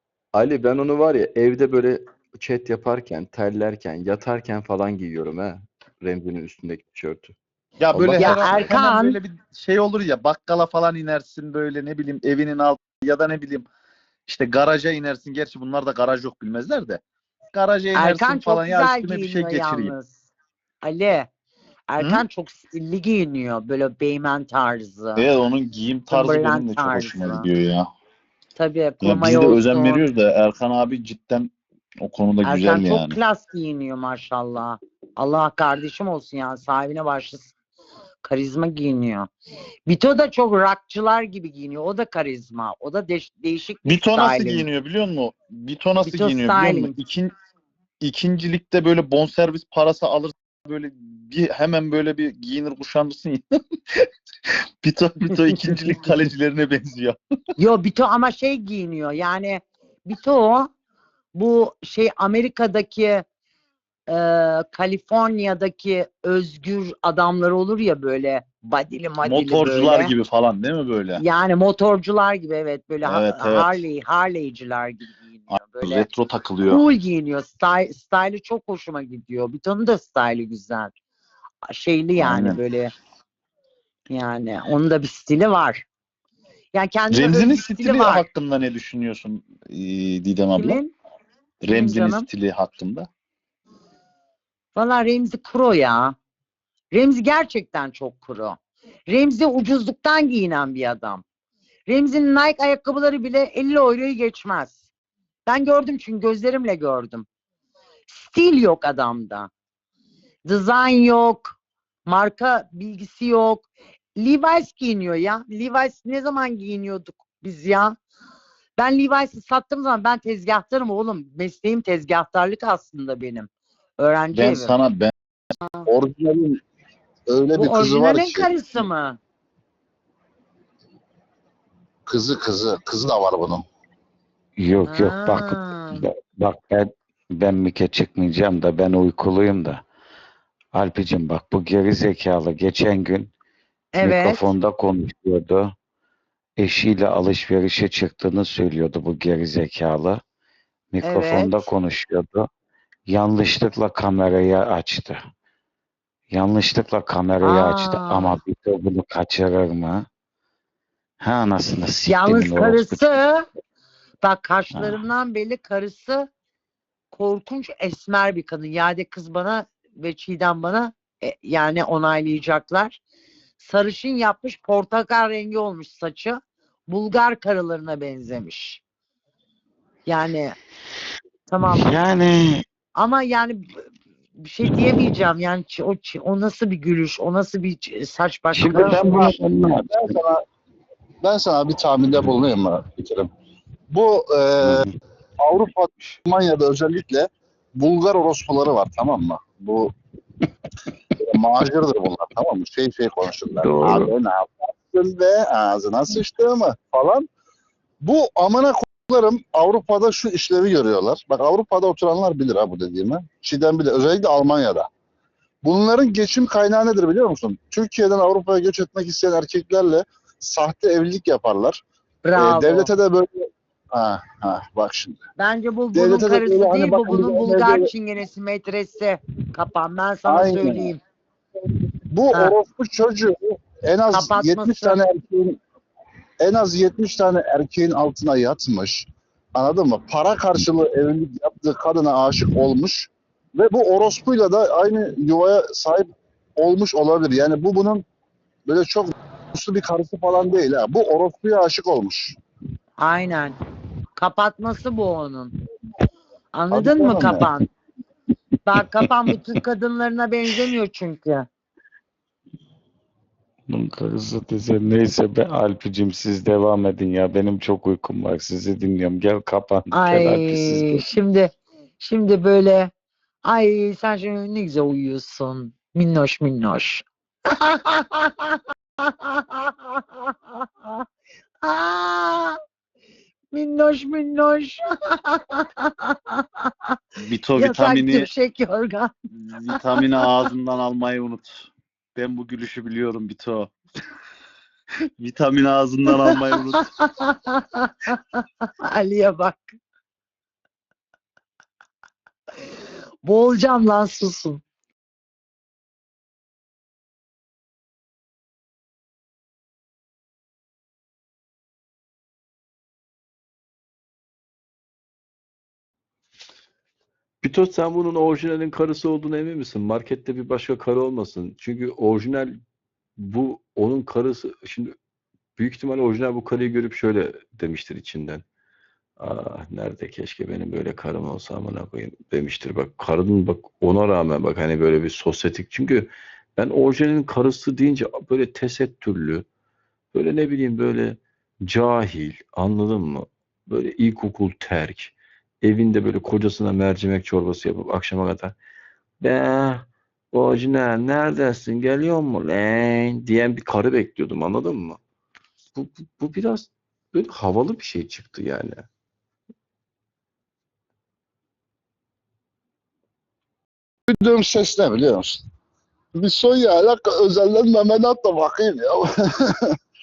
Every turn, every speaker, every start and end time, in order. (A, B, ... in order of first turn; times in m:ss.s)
0:00.3-0:07.3 A
0:07.8-0:13.7 B
0:07.9-0:08.7 A
0:08.2-0:09.2 C
0:14.3-0:17.0 B
0:17.5-0:19.9 B
0:18.0-0:20.1 C
0:20.8-0:21.3 C
0:21.9-0:25.2 C
0:22.0-0:22.2 B
0:25.2-0:27.9 B
0:26.1-0:27.5 C
0:28.6-0:30.0 C
0:29.0-0:31.5 B
0:32.0-0:33.2 B
0:32.4-0:37.5 C
0:38.2-0:39.3 C
0:39.9-0:44.7 C
0:43.9-0:47.3 B
0:46.0-0:47.0 C
0:48.0-0:54.1 B
0:54.8-0:57.2 B
0:57.6-1:00.7 C
1:01.4-1:03.2 C
1:04.1-1:10.1 C
1:09.2-1:11.2 B
1:11.2-1:16.1 C
1:13.0-1:13.8 B
1:15.5-1:16.8 B
1:16.7-1:20.9 C
1:21.7-1:22.9 C
1:22.2-1:22.6 B
1:24.1-1:25.8 C
1:26.7-1:28.2 C
1:27.1-1:30.8 B
1:30.5-1:30.9 C
1:31.6-1:33.1 B
1:31.7-1:32.3 C
1:34.8-1:36.2 C
1:36.9-1:41.2 C
1:41.9-1:44.8 C
1:45.5-1:47.3 C
1:48.1-1:49.5 C
1:50.4-1:58.0 C
1:58.8-2:04.8 C
2:04.3-2:05.1 B
2:05.9-2:06.6 D
2:07.3-2:08.5 D
2:07.6-2:09.2 C
2:12.1-2:13.6 D
2:14.6-2:19.8 E
2:14.9-2:16.1 C
2:20.7-2:23.3 E
2:23.9-2:24.5 C
2:24.0-2:25.8 E
2:26.6-2:30.2 E
2:30.9-2:32.5 E
2:31.0-2:31.7 C
2:33.1-2:35.2 E
2:36.3-2:40.1 E
2:37.4-2:38.4 C
2:41.2-2:43.1 E
2:42.1-2:43.5 C
2:44.2-2:46.3 C
2:47.1-2:53.0 C
2:53.6-2:58.8 C
3:00.1-3:00.6 C
3:01.5-3:02.0 C
3:01.7-3:02.6 E
3:03.0-3:03.7 C
3:04.4-3:09.4 C
3:08.6-3:10.1 E
3:08.7-3:10.4 D
3:11.2-3:13.3 D
3:13.9-3:14.9 D
3:14.6-3:14.9 E
3:15.4-3:19.9 D
3:21.2-3:27.3 D
3:23.6-3:24.1 E
3:28.0-3:34.9 D
3:35.6-3:41.8 D
3:42.2-3:42.9 C
3:42.4-3:45.2 D
3:45.4-3:51.0 C
3:45.9-3:47.9 D
3:50.3-3:50.9 D
3:52.1-3:55.6 D
3:54.1-3:55.0 C
3:56.4-4:08.0 D
4:08.7-4:12.4 D
4:13.0-4:13.6 C
4:14.2-4:15.5 C
4:16.5-4:17.7 C
4:16.7-4:17.5 D
4:18.6-4:21.5 C
4:23.7-4:31.1 E
4:29.9-4:32.9 C
4:33.4-4:41.1 C
4:41.6-4:42.6 C
4:43.5-4:47.0 C
4:47.2-4:48.3 B
4:47.6-4:49.1 C
4:49.3-4:53.7 B
4:49.7-4:50.0 C
4:55.2-4:56.9 B
4:56.7-4:59.8 C
5:03.2-5:04.6 C
5:17.4-5:22.6 A
5:23.2-5:25.0 A
5:25.6-5:28.4 A
5:29.2-5:39.5 A
5:40.1-5:48.6 A
5:49.2-5:55.0 A
5:55.8-5:58.8 A
6:04.1-6:05.4 D
6:06.1-6:09.8 D